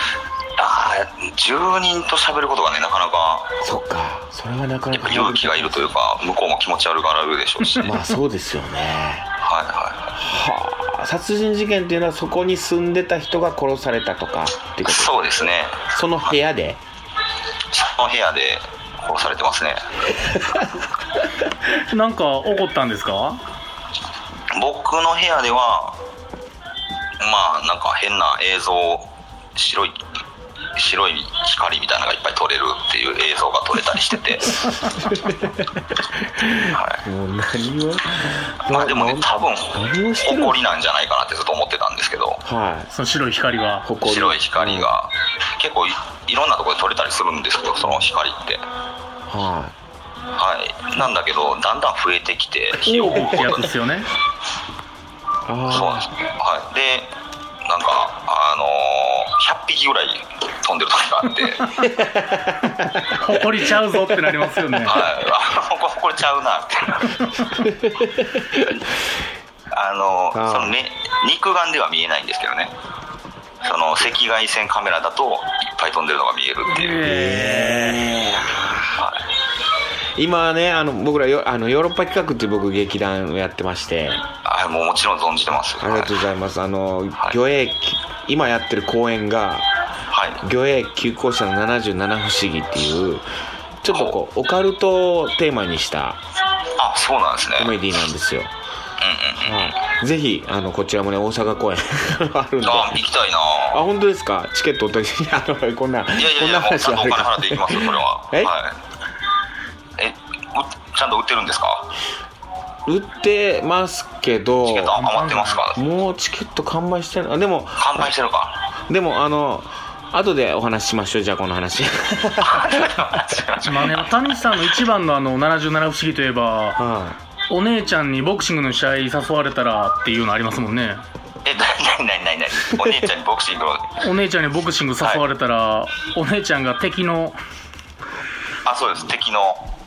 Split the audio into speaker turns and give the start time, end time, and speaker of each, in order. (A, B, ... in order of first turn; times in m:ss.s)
0:00.6-0:03.6 A
0:03.6-0:05.9 B
0:04.9-0:08.0 A
0:07.8-0:09.3 B
0:09.4-0:10.1 A
0:10.1-0:15.2 B
0:14.8-0:15.9 A
0:15.9-0:16.8 B
0:17.7-0:19.9 A
0:21.9-0:23.4 C
0:24.5-0:26.0 A
0:27.2-0:30.0 A
0:30.8-0:34.7 A
0:34.8-0:40.6 B
0:36.7-0:37.0 A
0:38.7-0:42.4 A
0:42.4-0:42.9 B
0:42.9-0:43.9 C
0:43.8-0:44.9 B
0:44.0-0:48.6 A
0:47.8-0:48.1 B
0:49.3-0:49.8 B
0:50.3-0:53.7 A
0:52.8-0:54.1 C
0:55.5-0:56.1 B
0:55.7-0:57.1 A
0:57.6-1:01.8 A
1:01.8-1:03.3 B
1:03.1-1:05.0 C
1:04.9-1:07.3 A
1:07.6-1:08.7 B
1:09.7-1:12.7 A
1:10.3-1:10.8 B
1:13.6-1:17.1 A
1:16.7-1:18.0 C
1:17.0-1:19.0 B
1:19.0-1:19.2 A
1:20.2-1:24.2 B
1:24.4-1:26.1 A
1:25.8-1:29.7 B
1:30.1-1:30.4 A
1:30.4-1:33.3 B
1:33.8-1:36.2 B
1:33.9-1:34.2 A
1:36.8-1:37.8 A
1:37.6-1:38.5 B
1:39.0-1:39.8 A
1:39.4-1:43.1 B
1:42.6-1:43.8 A
1:43.7-1:48.6 B
1:46.2-1:48.8 A
1:50.0-1:51.9 A
1:52.9-1:55.0 B
1:54.6-1:55.8 A
1:55.0-1:55.6 C
1:55.8-1:58.1 B
1:57.8-1:58.6 A
1:58.9-2:03.2 B
2:02.4-2:04.1 A
2:03.6-2:06.8 C
2:06.8-2:07.2 B
2:07.5-2:11.0 C
2:11.4-2:14.0 A
2:14.0-2:17.4 C
2:18.6-2:19.7 A